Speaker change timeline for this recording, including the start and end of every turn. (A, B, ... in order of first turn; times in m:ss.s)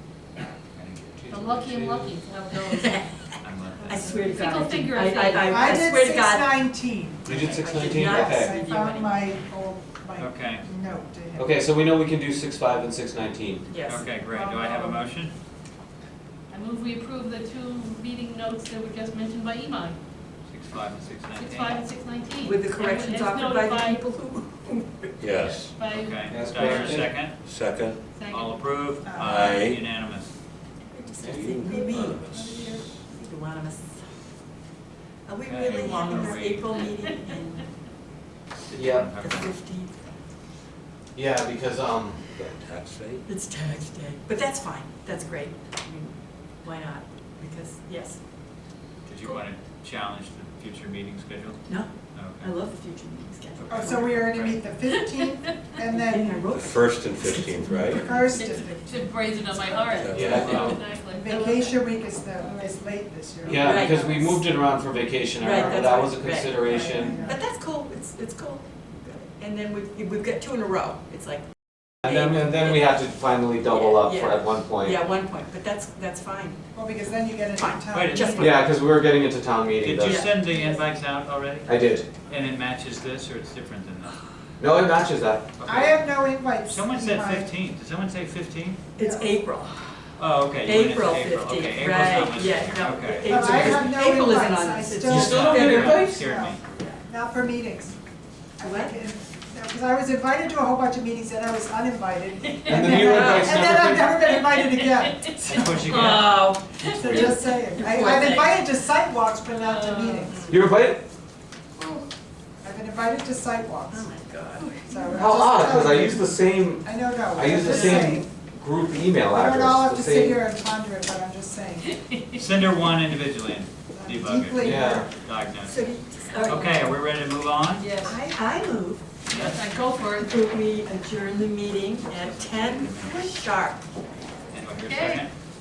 0:00.7-0:01.3 A
0:01.2-0:02.2 B
0:01.3-0:03.1 C
0:02.7-0:03.1 D
0:03.4-0:04.3 A
0:03.8-0:06.6 D
0:04.0-0:05.8 C
0:05.4-0:11.5 E
0:07.2-0:08.6 B
0:07.3-0:09.2 D
0:10.2-0:10.6 A
0:11.4-0:13.7 B
0:13.7-0:14.0 D
0:13.9-0:15.3 A
0:14.1-0:15.1 C
0:16.5-0:20.0 C
0:20.5-0:21.8 A
0:21.3-0:24.1 C
0:22.4-0:25.1 D
0:25.2-0:25.7 F
0:25.4-0:27.0 C
0:25.8-0:27.4 A
0:26.3-0:27.2 B
0:27.4-0:28.0 F
0:28.1-0:28.6 C
0:28.3-0:30.3 A
0:29.0-0:29.7 E
0:29.1-0:29.8 F
0:30.9-0:32.3 D
0:31.2-0:31.6 B
0:31.2-0:32.8 F
0:31.7-0:32.9 E
0:33.0-0:34.1 D
0:35.2-0:37.7 D
0:35.4-0:36.8 A
0:38.7-0:39.5 A
0:38.7-0:39.1 B
0:39.2-0:39.9 D
0:41.1-0:42.6 B
0:42.4-0:43.2 F
0:43.2-0:48.2 D
0:49.0-0:51.6 A
0:51.7-0:54.3 D
0:52.1-0:52.5 A
0:53.6-0:54.7 A
0:53.7-0:56.5 E
0:55.0-0:55.8 C
0:55.9-0:58.5 D
0:56.5-0:58.2 F
0:57.8-1:04.1 E
0:58.2-1:02.9 C
0:59.9-1:00.7 F
1:00.1-1:00.8 B
1:03.4-1:07.2 B
1:03.5-1:04.4 D
1:05.4-1:11.4 D
1:05.4-1:06.0 E
1:06.7-1:07.4 E
1:06.8-1:07.0 C
1:12.0-1:15.0 B
1:12.0-1:12.8 D
1:13.7-1:16.6 D
1:16.7-1:18.6 E
1:17.6-1:18.6 D
1:17.9-1:18.5 A
1:18.4-1:20.3 B
1:19.8-1:24.2 A
1:20.0-1:20.8 D
1:21.7-1:22.1 B
1:24.6-1:25.5 B
1:25.6-1:28.8 A
1:25.6-1:27.5 E
1:29.0-1:29.8 D
1:29.0-1:29.4 E
1:30.2-1:33.6 A
1:30.6-1:37.0 D
1:33.2-1:38.0 E
1:33.2-1:33.8 B
1:35.0-1:36.1 B
1:35.1-1:36.6 A
1:38.6-1:46.1 E
1:38.6-1:39.0 D
1:42.4-1:43.5 C
1:42.7-1:44.2 B
1:42.8-1:43.6 D
1:44.2-1:45.8 C
1:45.5-1:46.6 A
1:45.5-1:48.7 D
1:46.8-1:50.6 E
1:49.4-1:50.4 C
1:50.3-1:50.6 D
1:50.5-1:51.0 B
1:51.8-1:52.0 C
1:52.6-1:54.1 E
1:53.9-1:55.2 D
1:54.6-1:55.1 C
1:54.9-1:58.3 E
1:55.1-2:00.4 B
1:57.7-1:58.0 C
1:59.3-2:01.9 E
2:01.9-2:02.4 C
2:02.3-2:07.9 A
2:03.9-2:05.1 E
2:04.6-2:05.1 B
2:05.6-2:06.9 D
2:07.8-2:08.3 C
2:08.0-2:09.0 D
2:09.3-2:09.6 A
2:09.3-2:10.4 C
2:10.2-2:13.8 D
2:12.1-2:13.4 A
2:14.5-2:15.3 A
2:14.8-2:15.3 C